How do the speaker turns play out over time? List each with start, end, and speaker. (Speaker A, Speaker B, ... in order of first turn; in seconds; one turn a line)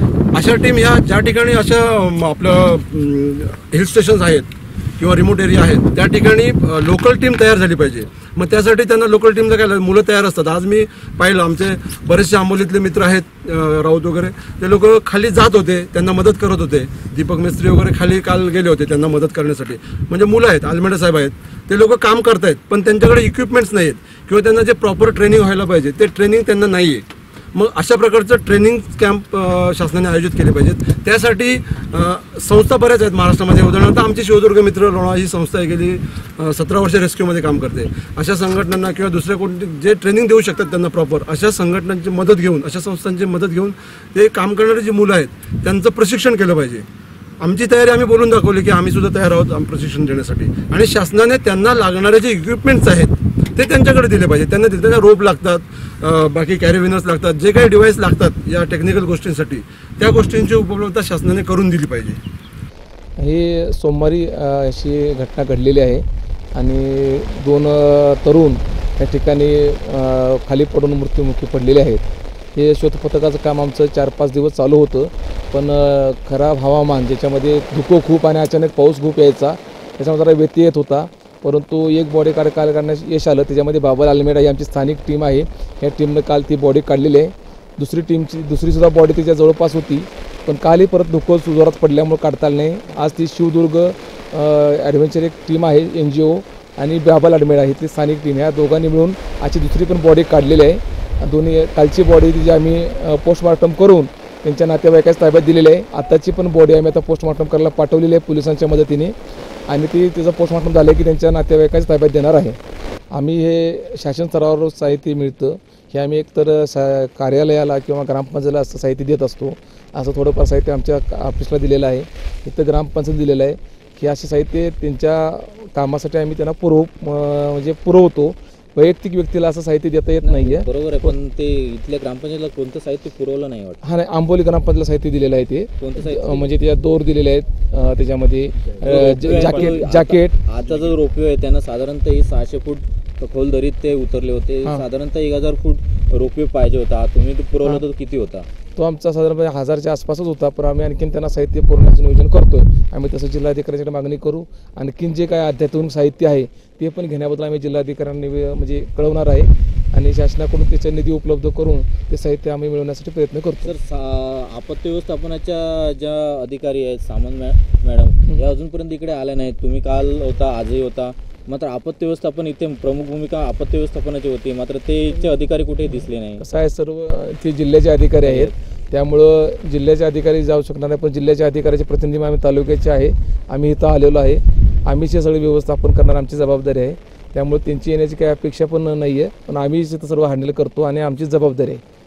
Speaker A: 0.3-46.9
Speaker A: 47.4-62.2
Speaker B: 63.2-72.0
Speaker B: 72.6-109.2
Speaker B: 109.7-112.6
Speaker B: 113.1-131.2
Speaker C: 130.2-133.8
Speaker B: 133.8-140.4
Speaker C: 135.8-136.6
Speaker C: 138.7-148.5
Speaker B: 148.8-163.7
Speaker C: 163.6-176.4
Speaker B: 176.4-191.8
Speaker C: 178.2-178.5